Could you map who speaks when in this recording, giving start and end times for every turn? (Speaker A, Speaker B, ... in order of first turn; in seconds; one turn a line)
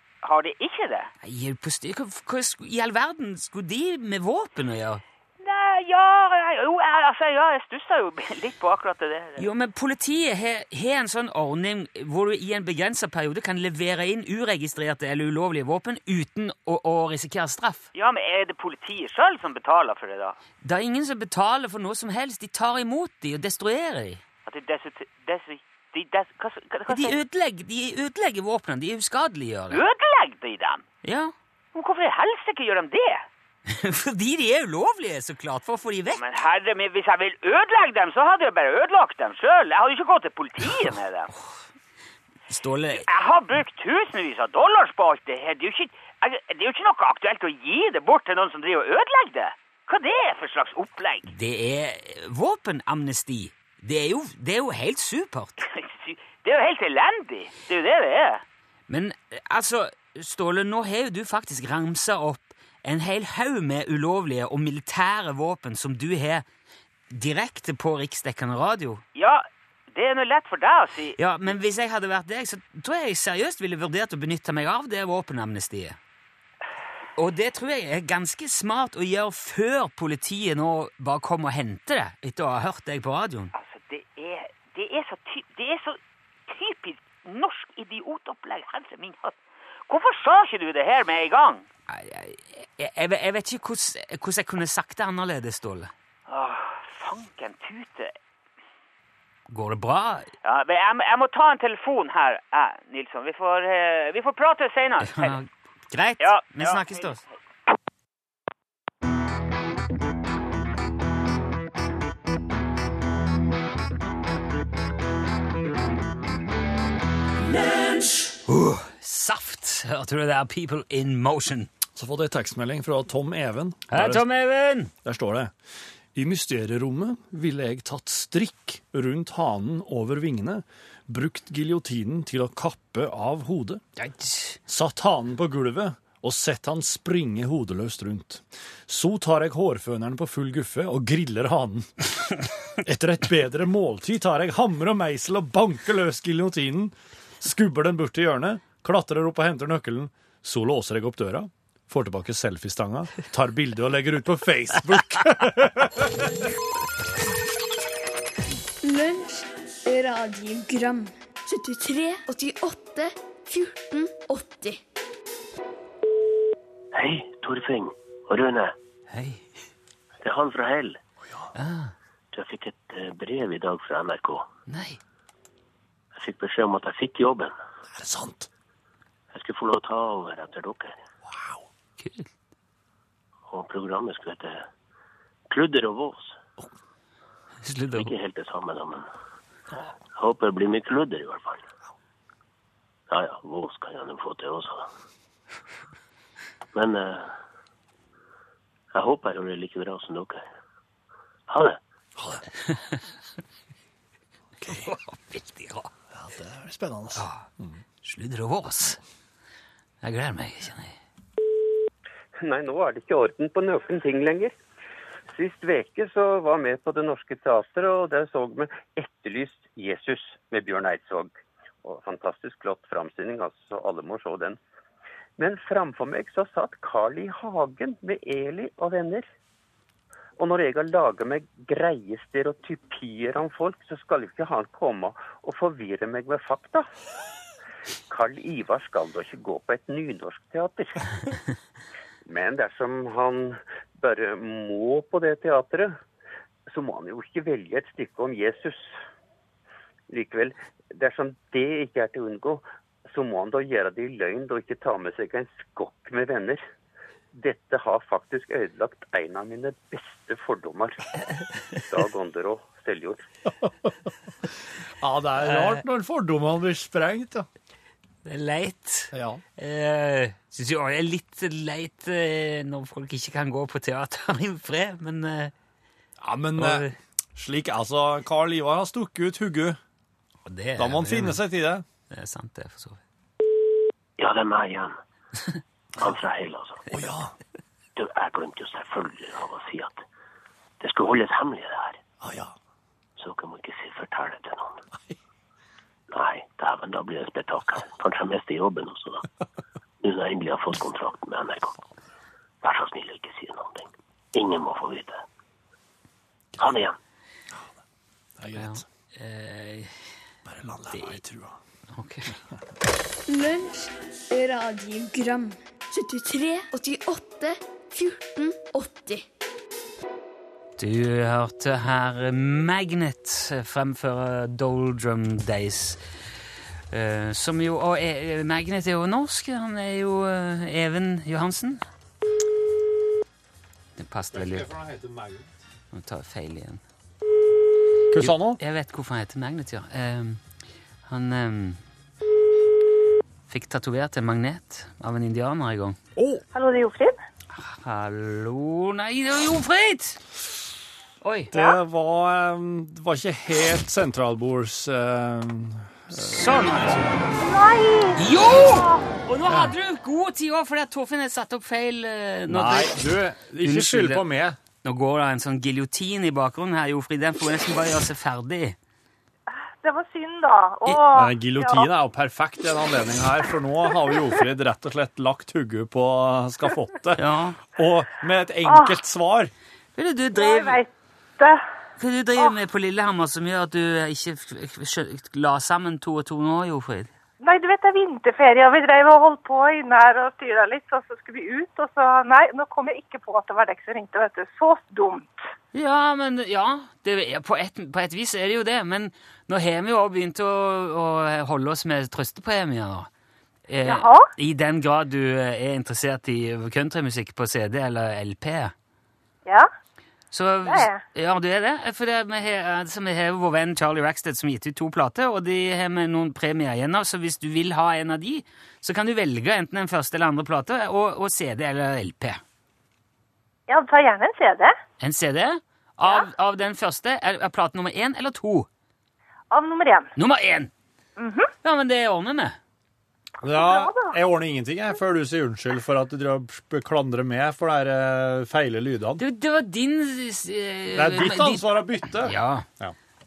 Speaker A: 0.2-1.1
Speaker B: 1.2-5.0
Speaker A: 5.4-9.4
Speaker B: 9.4-17.9
Speaker A: 17.9-20.4
Speaker B: 20.6-24.2
Speaker A: 24.4-27.2
Speaker B: 26.9-29.8
Speaker A: 29.7-30.8
Speaker B: 31.0-31.3
Speaker A: 31.7-33.2
Speaker B: 33.7-36.2
Speaker A: 36.1-41.3
Speaker B: 42.5-43.0
Speaker A: 43.0-51.3
Speaker B: 51.3-55.7
Speaker A: 55.6-58.4
Speaker B: 58.9-66.4
Speaker B: 67.1-69.0
Speaker A: 69.1-71.2
Speaker B: 71.2-76.0
Speaker B: 77.2-83.5
Speaker A: 83.5-89.3
Speaker A: 89.9-91.6
Speaker B: 91.9-95.9
Speaker A: 96.3-98.1
Speaker B: 99.5-100.3
Speaker A: 100.4-105.4
Speaker B: 105.0-107.2
Speaker A: 106.2-107.2
Speaker B: 118.4-121.7
Speaker C: 121.9-124.2
Speaker B: 123.9-124.9
Speaker C: 125.0-125.5
Speaker C: 126.1-133.8
Speaker B: 134.0-134.6
Speaker C: 134.7-141.9
Speaker C: 142.8-156.3
Speaker D: 158.8-164.8
Speaker E: 166.9-168.8
Speaker B: 169.1-169.5
Speaker E: 170.2-171.0
Speaker B: 171.5-171.9
Speaker E: 172.3-174.4
Speaker B: 174.7-175.0
Speaker E: 176.1-177.6
Speaker C: 177.9-178.5
Speaker E: 179.3-181.0
Speaker C: 181.3-181.6
Speaker B: 182.0-182.3
Speaker E: 183.5-184.7
Speaker E: 185.5-186.4
Speaker B: 187.6-188.1
Speaker E: 187.9-189.1
Speaker E: 190.1-191.6
Speaker E: 193.1-194.9
Speaker E: 196.7-197.4
Speaker E: 198.9-200.4
Speaker E: 201.5-201.8
Speaker C: 202.2-202.4
Speaker B: 202.7-203.0
Speaker C: 204.6-204.9
Speaker B: 204.7-205.9
Speaker C: 206.1-207.8
Speaker B: 207.1-207.4
Speaker B: 208.0-209.0
Speaker B: 210.0-211.0
Speaker F: 212.4-214.5
Speaker F: 215.3-221.3
Speaker F: 221.8-224.6
Speaker F: 225.4-229.3
Speaker F: 230.4-236.9
Speaker F: 238.1-241.2
Speaker F: 242.2-246.0
Speaker F: 246.7-248.9
Speaker F: 250.1-256.6
Speaker F: 257.3-261.1
Speaker F: 261.9-263.3
Speaker C: 263.6-263.9
Speaker C: 265.0-267.5
Speaker B: 268.2-275.5
Speaker C: 269.1-269.4
Speaker C: 276.2-279.8
Speaker B: 276.6-276.9
Speaker B: 280.4-281.4
Speaker C: 280.8-281.8
Speaker B: 282.1-283.0
Speaker E: 284.2-285.0
Speaker E: 286.0-286.9
Speaker C: 286.9-287.3
Speaker E: 287.9-290.0
Speaker E: 290.8-292.0
Speaker C: 292.2-292.5
Speaker E: 293.2-294.8
Speaker E: 296.1-299.3
Speaker E: 300.0-301.8
Speaker E: 302.6-305.2
Speaker E: 306.6-307.0
Speaker C: 308.4-308.8
Speaker B: 308.6-309.9
Speaker C: 310.4-311.6
Speaker B: 310.9-311.2
Speaker B: 311.9-312.4
Speaker D: 313.3-319.2
Speaker B: 320.8-326.0
Speaker B: 326.9-331.8
Speaker B: 334.0-334.7
Speaker C: 334.3-335.5
Speaker B: 335.9-336.8
Speaker C: 338.1-338.6
Speaker B: 338.2-340.4
Speaker B: 341.1-341.8
Speaker B: 343.5-346.0
Speaker C: 346.1-346.4
Speaker G: 346.5-347.1
Speaker B: 347.6-350.2
Speaker B: 351.2-351.5
Speaker C: 351.5-356.5
Speaker B: 356.1-357.3
Speaker G: 357.4-359.1
Speaker B: 358.2-363.0
Speaker C: 362.5-364.6
Speaker B: 363.6-364.2
Speaker B: 364.8-368.8
Speaker G: 369.8-371.9
Speaker C: 370.9-379.5
Speaker B: 377.1-377.6
Speaker G: 378.6-379.0
Speaker B: 379.9-380.8
Speaker G: 380.3-381.6
Speaker B: 382.0-387.1
Speaker G: 387.4-395.4
Speaker B: 395.7-403.1
Speaker B: 403.7-408.7
Speaker G: 403.8-404.3
Speaker B: 410.3-422.4
Speaker G: 410.6-411.0
Speaker G: 423.7-424.7
Speaker B: 425.0-428.7
Speaker G: 429.5-430.1
Speaker B: 430.1-430.7
Speaker G: 431.2-431.5
Speaker B: 431.6-432.6
Speaker C: 433.4-439.2
Speaker G: 433.4-434.1
Speaker B: 439.2-442.6
Speaker C: 440.9-442.9